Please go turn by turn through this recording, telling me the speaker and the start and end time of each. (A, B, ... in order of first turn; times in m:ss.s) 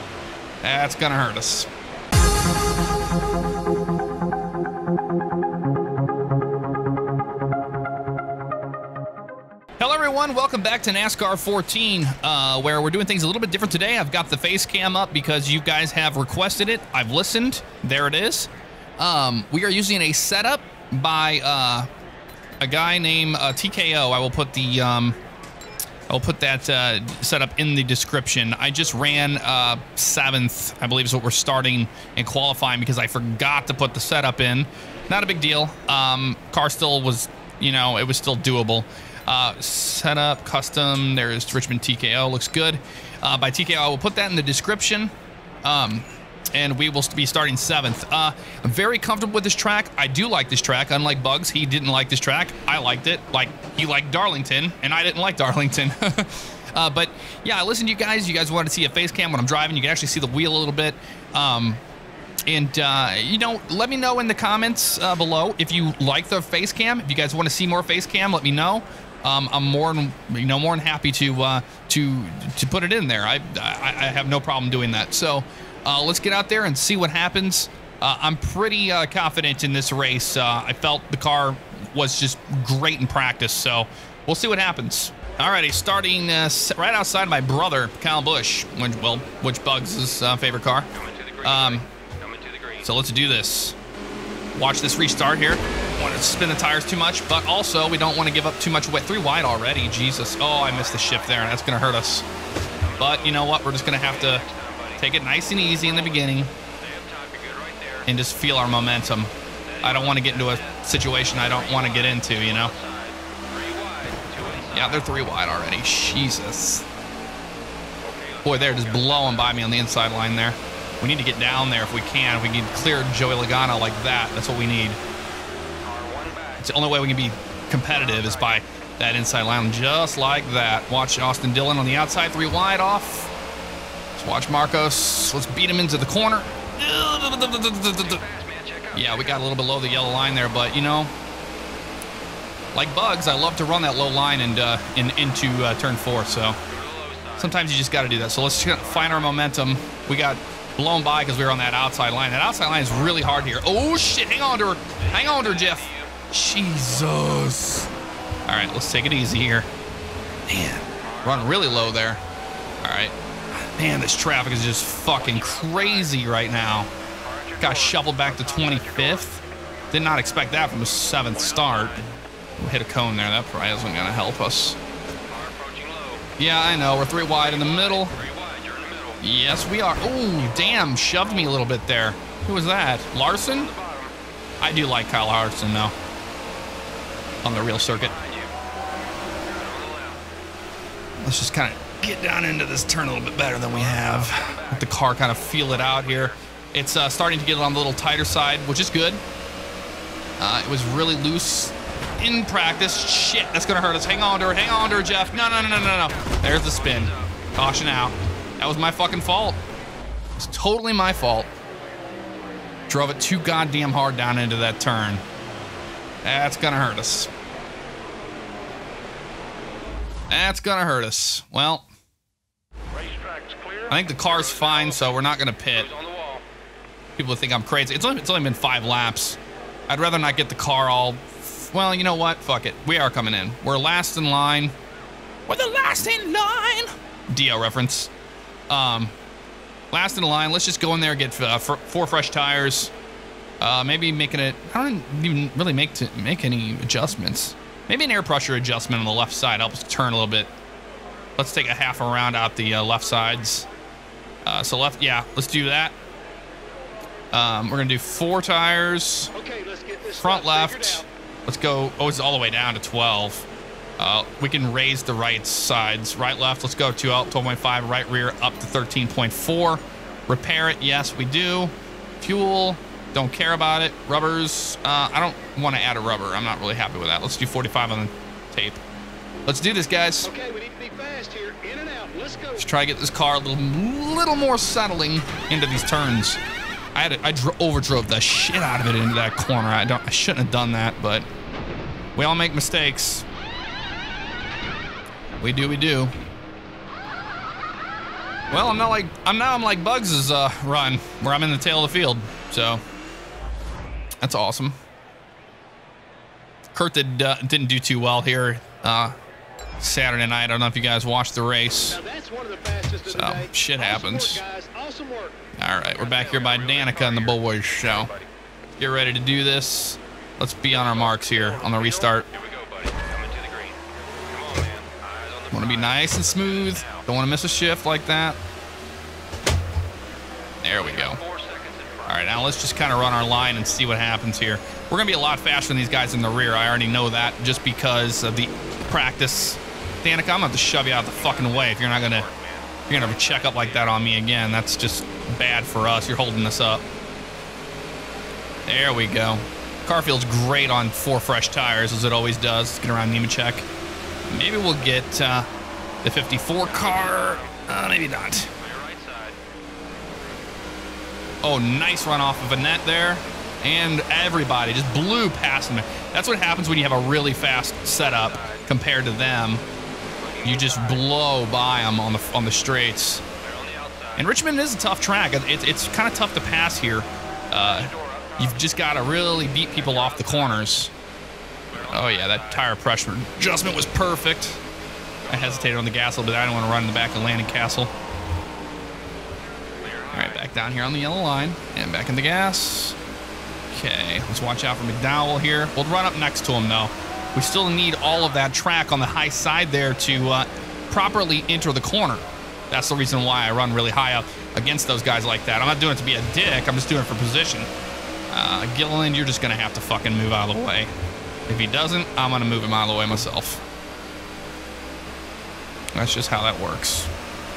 0:00.6-0:01.7 A
0:09.8-0:21.9 A
0:22.6-0:25.2 A
0:26.1-1:01.8 A
1:02.5-1:30.9 A
1:30.9-1:32.9 B
1:31.4-1:31.8 A
1:32.8-1:33.8 A
1:34.5-1:42.2 A
1:40.5-1:41.6 B
1:42.8-1:48.1 B
1:43.0-1:44.4 A
1:45.0-1:46.5 A
1:48.1-1:49.3 A
1:49.6-1:55.2 B
1:49.8-1:52.7 A
1:54.7-1:56.8 A
1:58.0-1:59.6 B
1:58.4-2:05.0 A
2:05.8-2:06.7 B
2:06.6-2:13.3 A
2:07.9-2:08.6 B
2:14.1-2:18.2 A
2:18.0-2:19.4 B
2:18.9-2:21.1 A
2:22.7-2:26.6 A
2:26.7-2:27.6 B
2:27.4-2:37.9 A
2:28.7-2:29.4 B
2:32.9-2:33.5 B
2:35.0-2:36.1 B
2:38.5-2:39.7 A
2:40.5-2:42.2 A
2:41.0-2:42.0 B
2:42.8-2:46.9 A
2:45.1-2:46.2 B
2:47.2-2:49.3 B
2:47.6-2:49.4 A
2:49.9-2:52.0 A
2:51.3-2:52.0 B
2:52.6-2:54.8 A
2:55.3-2:56.2 B
2:56.4-2:58.1 A
2:57.3-2:59.2 B
2:59.2-3:03.7 A
3:00.4-3:01.5 B
3:03.5-3:04.1 B
3:04.6-3:05.9 A
3:07.4-3:08.1 A
3:07.4-3:08.6 B
3:09.5-3:10.2 B
3:11.2-3:19.2 A
3:13.7-3:16.3 B
3:20.4-3:29.6 A
3:24.5-3:27.3 B
3:30.4-3:31.5 A
3:32.9-3:35.2 A
3:36.2-3:37.3 A
3:40.3-3:41.8 A
3:42.9-3:46.4 B
3:43.9-3:45.9 A
3:47.2-3:54.7 A
3:55.5-3:58.1 A
3:58.7-3:59.1 A
3:59.9-4:02.9 A
4:03.6-4:10.5 A
4:11.4-4:13.7 A
4:14.4-4:15.9 A
4:17.3-4:19.3 A
4:19.3-4:21.0 C
4:20.2-4:23.5 A
4:24.0-4:38.8 A
4:39.4-4:40.3 A
4:40.3-4:42.6 C
4:42.6-4:46.4 A
4:46.9-4:51.2 A
4:52.2-4:53.2 A
4:55.4-4:56.1 A
4:58.5-5:02.8 A
5:04.2-5:04.8 A
5:06.7-5:09.1 A
5:09.8-5:12.0 A
5:12.0-5:15.4 C
5:13.0-5:14.4 A
5:15.6-5:18.1 A
5:15.9-5:18.3 B
5:18.8-5:22.2 A
5:20.7-5:27.1 B
5:25.5-5:28.4 A
5:30.6-5:31.2 A
5:30.8-5:32.5 B
5:32.1-5:42.2 A
5:41.2-5:44.1 B
5:42.9-5:46.8 A
5:48.7-5:53.6 A
5:54.3-5:55.5 A
5:56.0-5:58.5 A
5:56.6-5:57.6 B
5:58.6-5:59.4 B
6:01.4-6:09.6 A
6:08.0-6:08.6 B
6:10.2-6:11.1 B
6:10.4-6:13.2 A
6:13.4-6:14.3 B
6:14.2-6:20.9 A
6:17.6-6:18.7 B
6:19.7-6:20.7 B
6:21.7-6:22.7 B
6:21.8-6:24.6 A
6:25.3-6:25.8 B
6:25.3-6:27.9 A
6:29.8-6:30.5 B
6:30.1-6:33.0 A
6:33.7-6:47.7 A
6:48.3-6:50.9 A
6:51.5-6:53.6 A
6:55.9-6:57.1 A